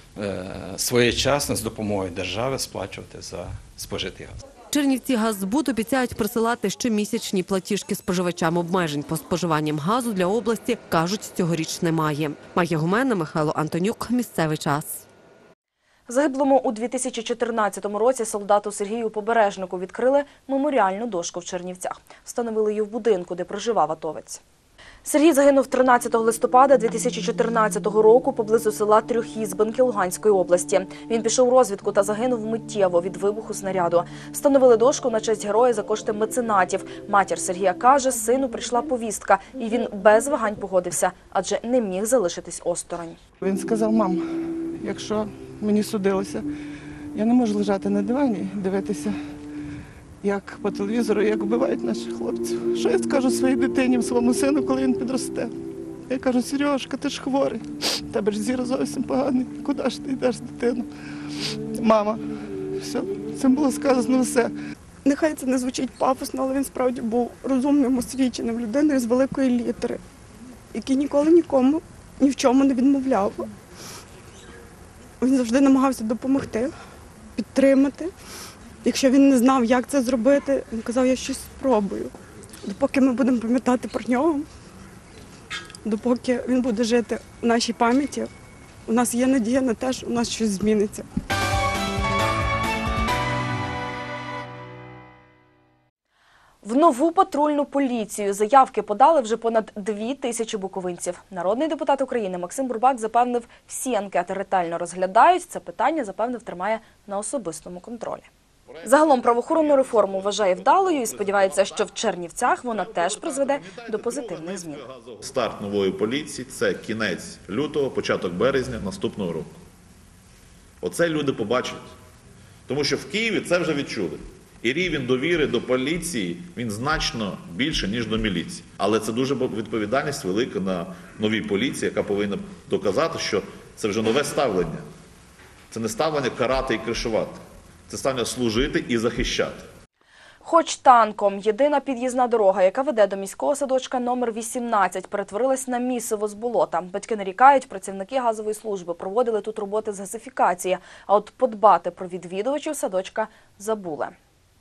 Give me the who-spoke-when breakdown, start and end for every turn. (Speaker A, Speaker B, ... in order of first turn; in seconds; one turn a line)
Speaker A: 0.2-4.4
Speaker B: 4.7-15.0
Speaker C: 16.1-24.4
Speaker C: 25.0-43.2
Speaker D: 43.4-44.2
Speaker D: 44.8-46.4
Speaker D: 47.1-49.1
Speaker D: 50.2-55.5
Speaker D: 56.1-60.9
Speaker D: 61.8-62.2
Speaker D: 62.8-64.5
Speaker E: 65.0-70.0
Speaker E: 70.7-73.5
Speaker E: 75.2-76.7
Speaker E: 77.4-78.1
Speaker E: 78.8-82.1
Speaker E: 82.6-84.5
Speaker E: 85.8-88.3
Speaker E: 88.9-91.0
Speaker C: 96.6-108.3
Speaker F: 108.8-111.9
Speaker C: 108.8-114.9
Speaker F: 112.7-119.5
Speaker F: 120.8-121.9
Speaker F: 122.7-134.8
Speaker F: 135.7-139.7
Speaker C: 140.4-154.1